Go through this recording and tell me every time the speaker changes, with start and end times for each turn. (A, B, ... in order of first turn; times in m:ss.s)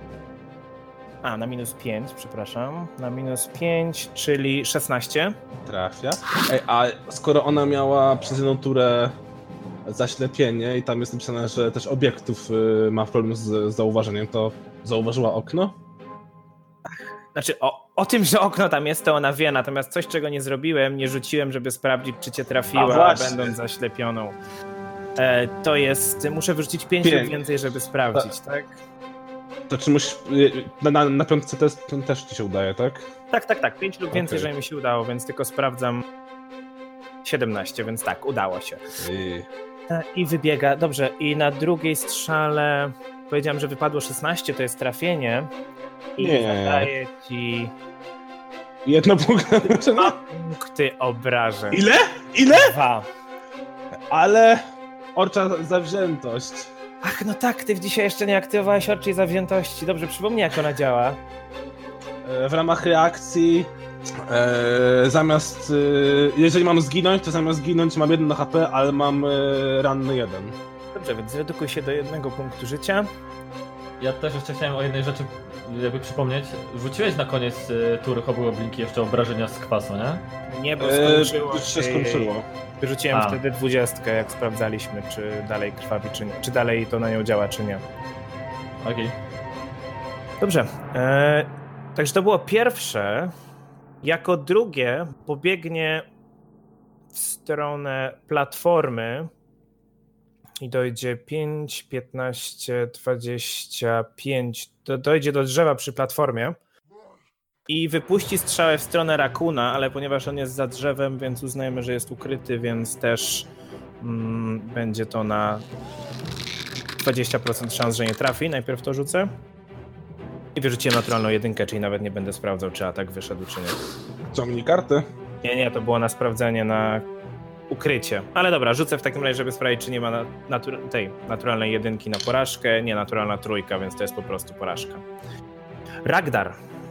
0:01.2-0:05.4 A
0:05.6-0:09.2 B
0:09.8-0:15.8 B
0:17.3-0:24.4 A
0:22.7-0:23.5 B
0:25.2-0:28.7 A
0:27.0-0:28.3 B
0:29.7-0:33.0 B
0:33.3-0:36.0 A
0:34.1-0:34.5 B
0:37.2-0:38.8 A
0:39.0-0:39.5 B
0:39.9-0:45.5 A
0:46.2-0:47.7 A
0:46.2-0:46.9 B
0:48.8-0:50.2 B
0:49.9-0:51.8 A
0:51.7-0:52.8 B
0:52.5-0:53.1 A
0:54.1-0:54.6 B
0:55.1-0:56.7 B
0:57.0-1:01.2 A
1:02.2-1:03.7 B
1:04.2-1:10.6 B
1:10.9-1:13.1 A
1:14.0-1:20.2 C
1:20.5-1:27.8 A
1:20.8-1:22.4 B
1:23.1-1:23.4 C
1:28.8-1:29.2 C
1:30.4-1:33.3 A
1:34.0-1:36.0 A
1:37.1-1:39.3 A
1:40.6-1:46.6 A
1:47.7-1:53.5 A
1:54.0-1:55.6 A
1:57.0-1:59.3 A
2:00.6-2:03.8 A
2:04.3-2:05.0 B
2:05.4-2:07.0 A
2:07.7-2:15.0 A
2:16.0-2:16.6 A